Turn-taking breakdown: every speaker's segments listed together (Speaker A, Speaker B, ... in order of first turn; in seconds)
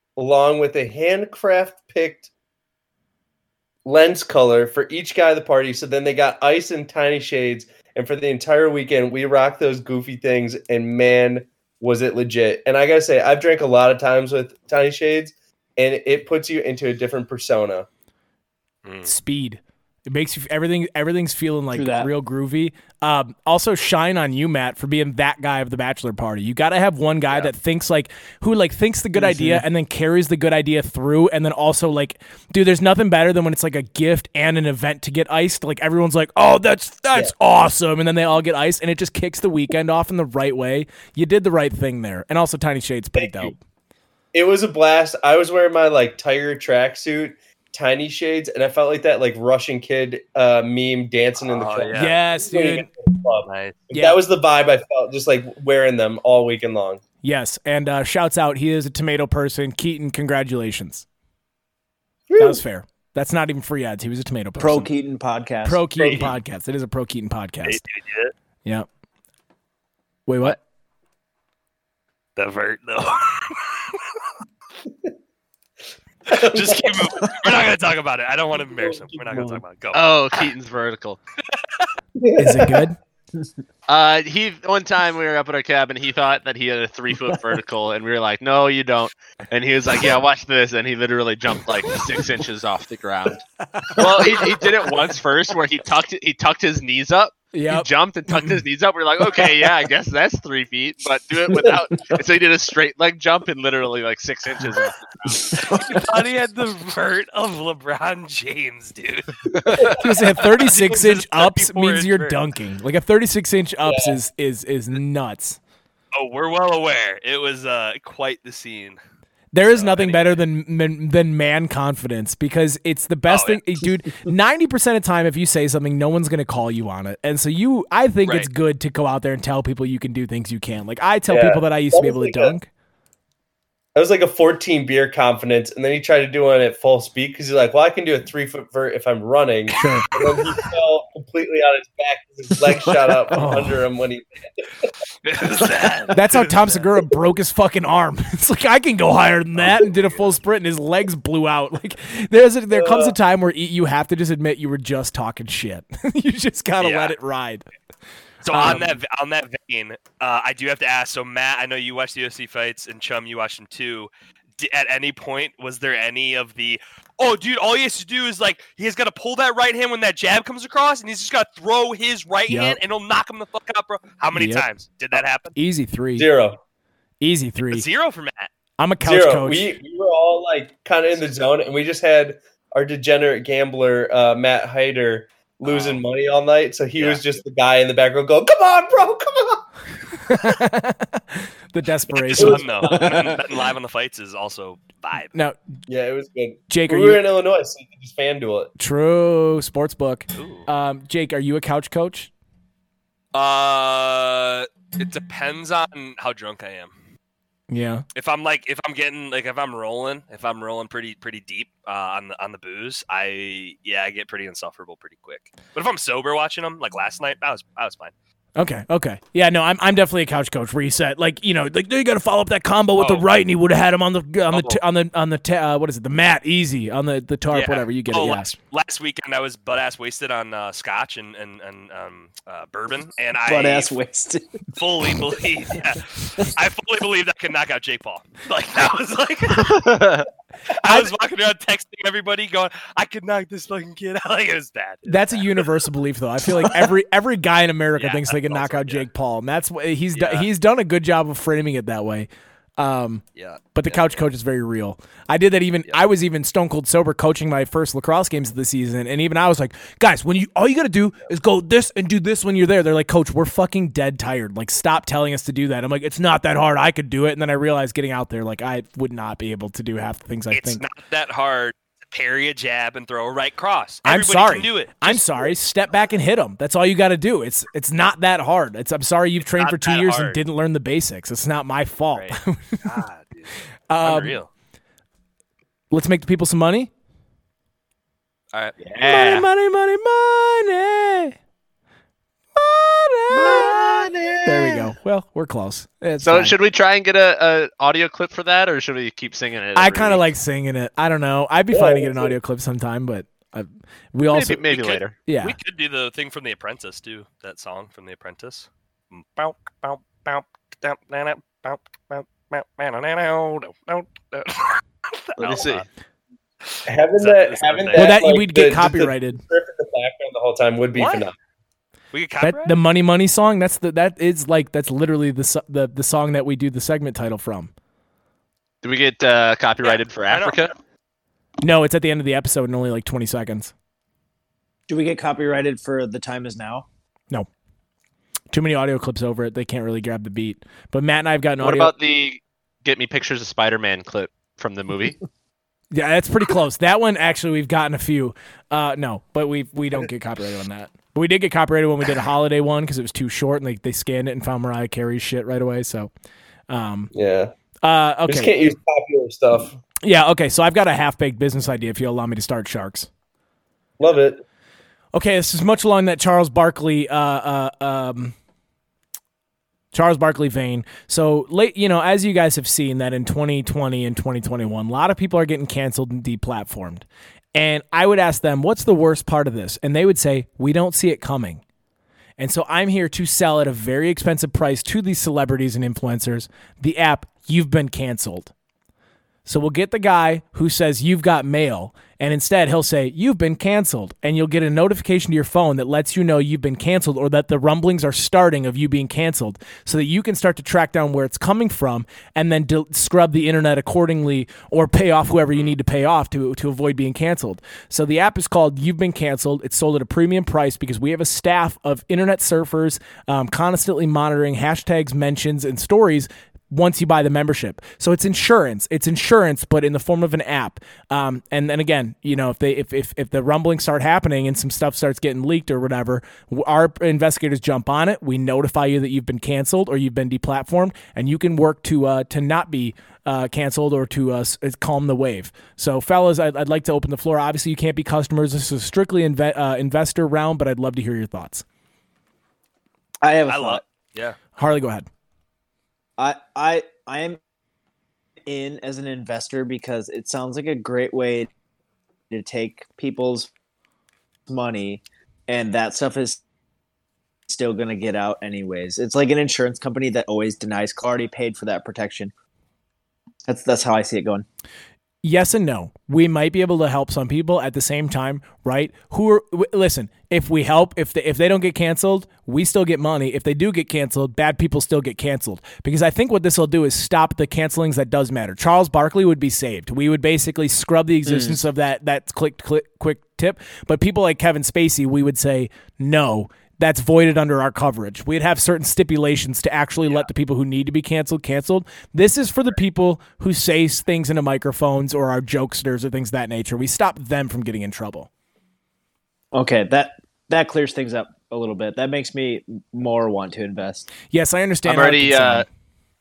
Speaker A: 0.2-2.3, 3.8-17.9, 43.1-43.5, 44.3-57.0, 62.3-62.6, 66.0-66.3, 76.3-77.4, 78.7-79.6, 82.2-82.9, 113.8-114.2, 131.3-132.6, 133.9-144.9, 152.7-153.1, 176.2-176.6, 179.0-189.6, 192.3-193.3, 195.9-198.7, 301.7-302.4, 316.9-321.3, 357.1-357.5, 358.3-359.8, 364.0-364.4
Speaker B: 18.8-19.1, 51.4-52.1, 53.5-53.8, 67.6-68.3, 72.4-74.2, 76.3-80.5, 81.5-81.9, 105.7-112.4, 116.1-119.0, 119.7-120.4, 123.3-123.6, 128.2-128.5, 145.2-146.6, 149.6-150.2, 156.8-157.2, 158.4-175.5, 177.7-178.5, 185.6-186.0, 186.9-187.2, 192.1-195.3, 200.3-200.7, 203.3-206.9, 208.1-218.1, 223.0-223.2, 224.5-224.8, 227.5-233.9, 234.7-240.1, 240.7-245.7, 247.9-249.1, 250.1-250.5, 253.4-254.2, 270.5-275.5, 279.4-280.4, 282.1-284.5, 304.7-315.8, 316.6-318.2, 320.9-321.3, 322.1-322.8, 329.8-330.6, 443.5-444.4
Speaker C: 19.1-43.6, 51.9-52.9, 53.9-54.2, 57.2-61.0, 62.4-64.9, 65.6-67.8, 70.3-70.6, 82.4-83.0, 93.7-94.5, 97.5-98.6, 110.0-115.6, 119.5-132.7, 139.8-140.1, 143.3-143.8, 146.1-157.7, 158.5-159.0, 172.5-172.8, 174.3-176.3, 177.2-177.9, 178.8-179.7, 190.3-192.7, 196.7-197.2, 198.8-202.3, 207.7-208.1, 218.6-228.6, 240.8-241.1, 245.1-253.2, 253.7-270.8, 274.1-282.9, 283.9-284.4, 285.9-286.9, 289.0-291.4, 292.6-293.9, 294.4-296.6, 299.7-304.7, 305.2-305.6, 317.9-319.4, 322.4-327.7, 331.6-333.7, 338.5-341.9, 345.9-356.1, 356.7-357.1, 357.8-358.6, 360.0-363.1, 365.1-368.3, 369.9-381.6, 382.4-388.5, 389.4-441.6, 444.6-445.1, 465.2-498.3, 504.3-505.6
Speaker D: 21.7-22.1, 29.1-29.6, 64.5-65.8, 94.0-94.5, 192.9-193.3, 233.5-234.6, 334.9-336.9, 443.2-443.8, 446.2-447.4, 448.4-451.5, 452.3-453.5, 454.5-456.4, 457.5-462.3, 463.5-464.4, 481.2-481.6, 499.5-504.1
Speaker E: 79.9-81.2, 83.9-93.4, 94.0-105.8, 109.6-109.9, 239.5-240.3, 288.8-289.5, 293.3-294.8, 296.2-300.2, 304.3-305.1, 315.4-315.8, 328.8-330.7, 341.6-345.2, 504.8-505.7